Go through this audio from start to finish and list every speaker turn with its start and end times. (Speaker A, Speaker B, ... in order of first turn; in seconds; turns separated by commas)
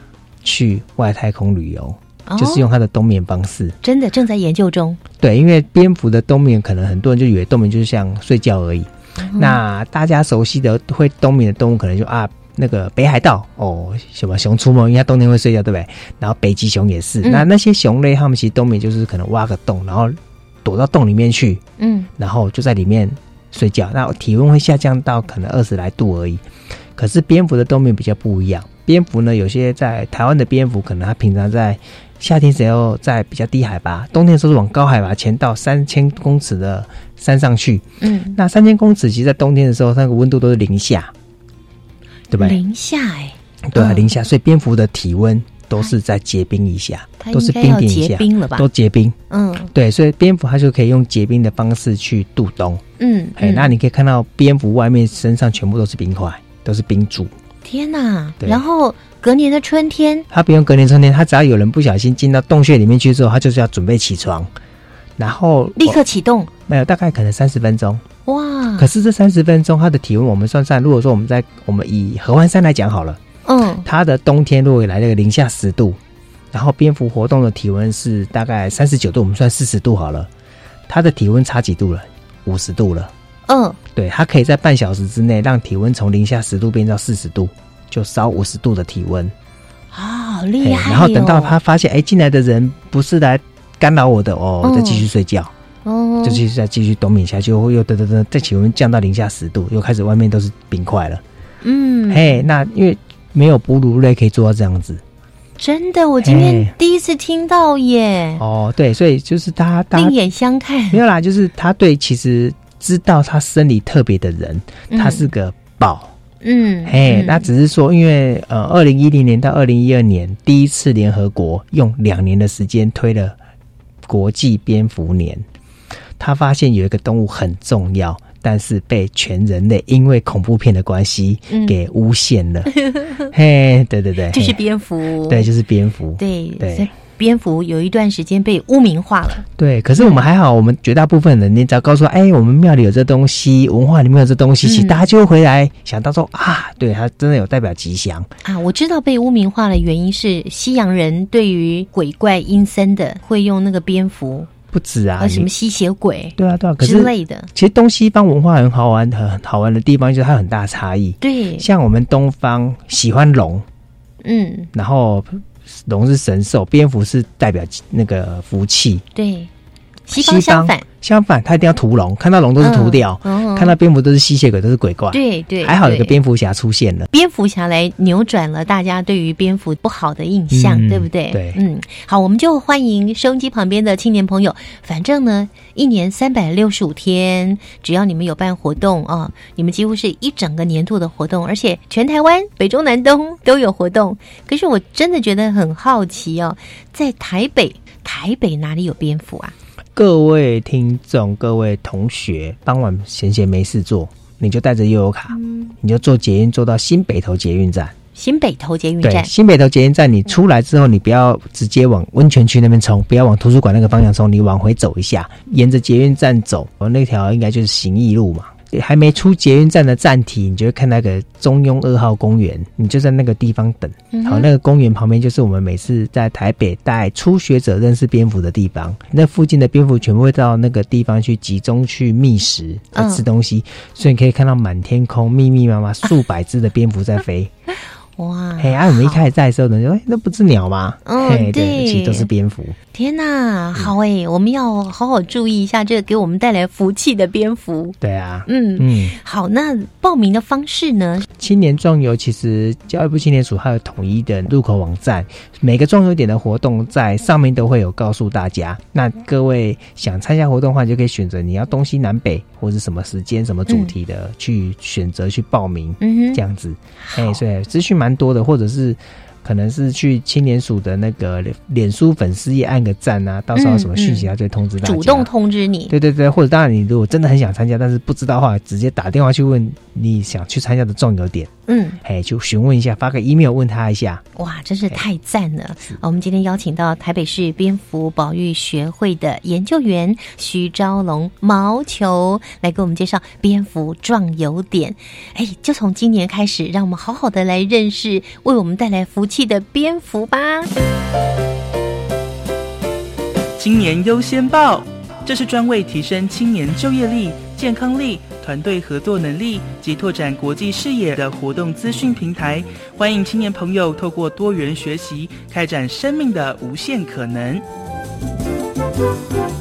Speaker A: 0.4-3.8, Speaker B: 2.3-2.7, Speaker B: 3.8-5.0, Speaker A: 5.1-21.6, Speaker B: 9.2-9.6, Speaker B: 21.8-22.1, Speaker A: 22.2-26.4, Speaker A: 27.0-41.1, Speaker B: 38.0-38.4, Speaker A: 42.3-42.6, Speaker B: 42.4-44.1, Speaker A: 43.7-49.1, Speaker B: 47.2-48.7, Speaker B: 49.3-49.7, Speaker A: 49.7-52.8, Speaker B: 53.0-53.7, Speaker A: 53.4-57.3, Speaker B: 57.6-60.3, Speaker A: 60.3-64.5, Speaker A: 65.2-66.0, Speaker B: 65.8-66.5, Speaker A: 66.7-68.1, Speaker B: 68.3-68.9, Speaker A: 68.8-73.2, Speaker B: 73.5-73.9, Speaker A: 73.8-76.0, Speaker A: 76.5-80.3, Speaker A: 80.9-83.1, Speaker B: 83.5-83.8, Speaker A: 83.9-89.3, Speaker B: 89.9-91.6, Speaker A: 90.6-95.5, Speaker B: 94.6-95.1, Speaker B: 95.8-96.4, Speaker A: 96.2-101.2, Speaker B: 101.6-102.5, Speaker A: 102.1-105.0, Speaker B: 105.6-108.4, Speaker A: 106.2-106.7, Speaker A: 108.4-110.2, Speaker B: 109.9-111.0, Speaker A: 110.9-116.1, Speaker B: 114.9-115.3, Speaker B: 116.4-117.5, Speaker A: 116.9-123.4, Speaker A: 124.1-125.4, Speaker A: 126.2-132.7, Speaker B: 131.5-131.8, Speaker B: 132.7-133.2, Speaker A: 133.3-134.6, Speaker B: 134.3-135.5, Speaker A: 135.3-136.9, Speaker B: 136.2-139.4, Speaker A: 139.6-148.3, Speaker B: 140.0-140.3, Speaker B: 144.6-145.1, Speaker B: 148.4-154.5, Speaker A: 154.7-155.5, Speaker B: 155.2-157.5, Speaker A: 156.4-163.7, Speaker B: 161.2-161.7, Speaker B: 164.2-164.7, Speaker A: 164.7-169.0, Speaker B: 169.2-169.5, Speaker B: 170.1-170.9, Speaker A: 170.1-177.1, Speaker B: 172.6-173.8, Speaker B: 175.1-176.2, Speaker B: 177.1-199.5, Speaker A: 180.5-181.6, Speaker A: 200.0-207.9, Speaker B: 205.3-205.7, Speaker B: 208.2-209.3, Speaker A: 209.0-237.5, Speaker B: 224.1-224.5, Speaker B: 232.9-233.3, Speaker B: 238.2-239.2, Speaker A: 238.6-242.8, Speaker B: 241.0-242.3, Speaker B: 242.9-251.3, Speaker A: 248.0-249.2, Speaker A: 251.3-275.3, Speaker B: 263.7-263.9, Speaker B: 266.0-266.4, Speaker B: 267.0-267.4, Speaker B: 273.6-275.9, Speaker A: 275.9-284.2, Speaker B: 281.7-282.0, Speaker B: 284.4-300.7, Speaker C: 303.6-317.6